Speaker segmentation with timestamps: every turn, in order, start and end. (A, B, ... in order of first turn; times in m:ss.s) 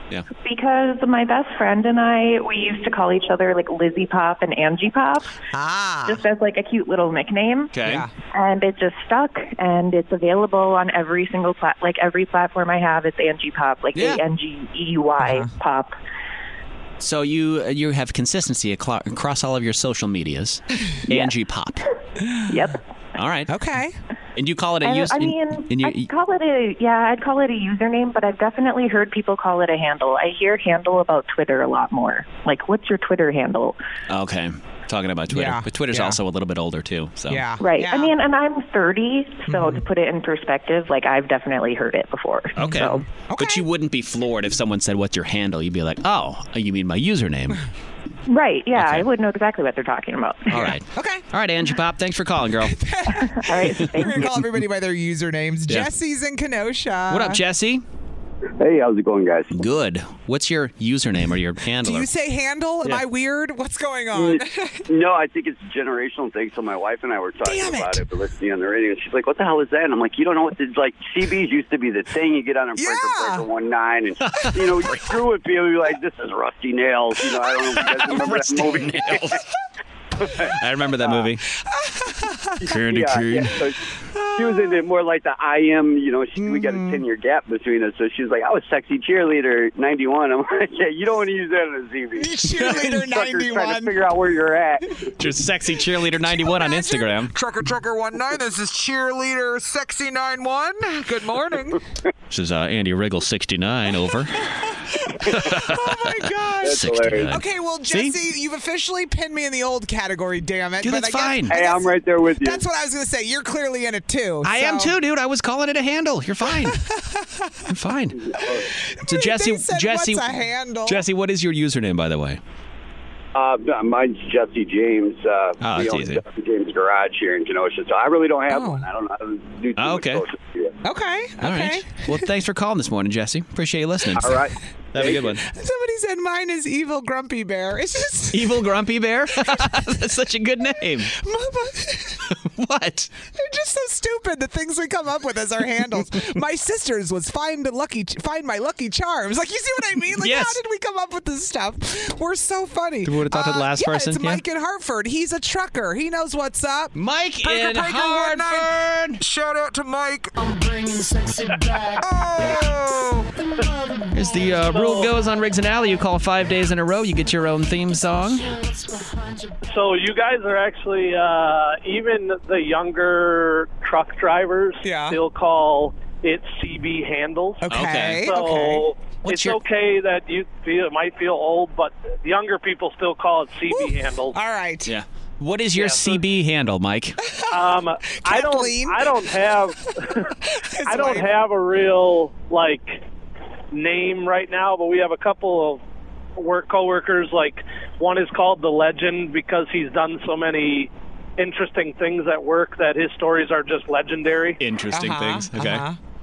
0:00.4-0:05.4 A
0:05.5-0:06.2 B
0:06.1-0:16.0 A
0:07.7-0:08.1 C
0:07.8-0:08.1 B
0:14.0-0:14.2 C
0:15.2-0:15.5 B
0:17.0-0:21.9 C
0:22.5-0:22.8 A
0:23.2-0:23.5 C
0:23.5-0:24.0 B
0:24.4-0:26.1 C
0:24.8-0:33.8 A
0:34.1-0:37.5 C
0:35.3-0:36.2 B
0:37.3-0:38.1 B
0:37.6-0:43.1 A
0:39.5-0:39.8 B
0:42.6-0:47.6 C
0:43.3-0:43.6 B
0:48.3-0:50.7 A
0:48.8-0:49.1 C
0:50.5-0:52.8 C
0:50.9-0:51.2 B
0:52.7-0:57.4 B
0:53.2-0:54.3 A
0:53.8-0:54.5 C
0:57.1-0:57.8 C
0:58.6-0:59.5 D
0:59.5-1:02.1 C
1:01.8-1:04.8 B
1:04.1-1:19.4 D
1:07.4-1:08.0 B
1:12.8-1:13.4 B
1:14.2-1:15.1 C
1:17.4-1:19.4 C
1:20.2-1:20.5 D
1:20.4-1:21.4 C
1:21.8-1:22.6 B
1:22.6-1:23.8 D
1:22.7-1:23.6 C
1:24.2-1:24.8 B
1:24.4-1:35.1 D
1:26.4-1:27.0 B
1:32.2-1:34.0 B
1:32.5-1:33.1 C
1:35.2-1:37.4 C
1:36.4-1:37.2 B
1:37.3-1:41.8 E
1:42.3-1:48.2 C
1:44.9-1:54.9 B
1:46.6-1:47.3 D
1:50.8-1:51.6 C
1:51.5-1:52.6 D
1:54.4-1:56.8 C
1:56.7-1:57.5 B
1:57.7-1:58.2 C
1:58.3-1:58.7 D
1:58.4-2:01.0 B
1:59.0-2:02.4 C
2:03.4-2:10.7 D
2:05.6-2:06.2 C
2:08.5-2:08.9 B
2:09.8-2:10.2 C
2:10.8-2:12.1 B
2:11.4-2:14.4 C
2:14.2-2:15.3 D
2:14.9-2:15.4 C
2:15.4-2:18.6 B
2:18.3-2:21.1 C
2:19.5-2:19.8 B
2:21.1-2:22.2 B
2:22.3-2:23.1 C
2:23.3-2:36.9 B
2:30.2-2:30.6 C
2:33.0-2:34.4 C
2:36.9-2:39.2 C
2:37.4-2:43.3 E
2:44.1-2:48.5 C
2:44.7-2:45.1 F
2:49.6-2:57.7 F
2:54.8-2:55.2 B
2:57.6-2:58.8 B
2:57.7-2:58.4 C
2:58.2-3:04.4 F
2:59.2-2:59.6 C
3:03.7-3:04.9 B
3:04.8-3:07.2 C
3:05.8-3:06.2 F
3:07.5-3:10.3 F
3:08.2-3:09.2 B
3:10.5-3:11.3 B
3:10.9-3:13.0 F
3:13.7-3:15.8 F
3:16.4-3:24.6 F
3:24.6-3:25.8 C
3:24.9-3:26.0 B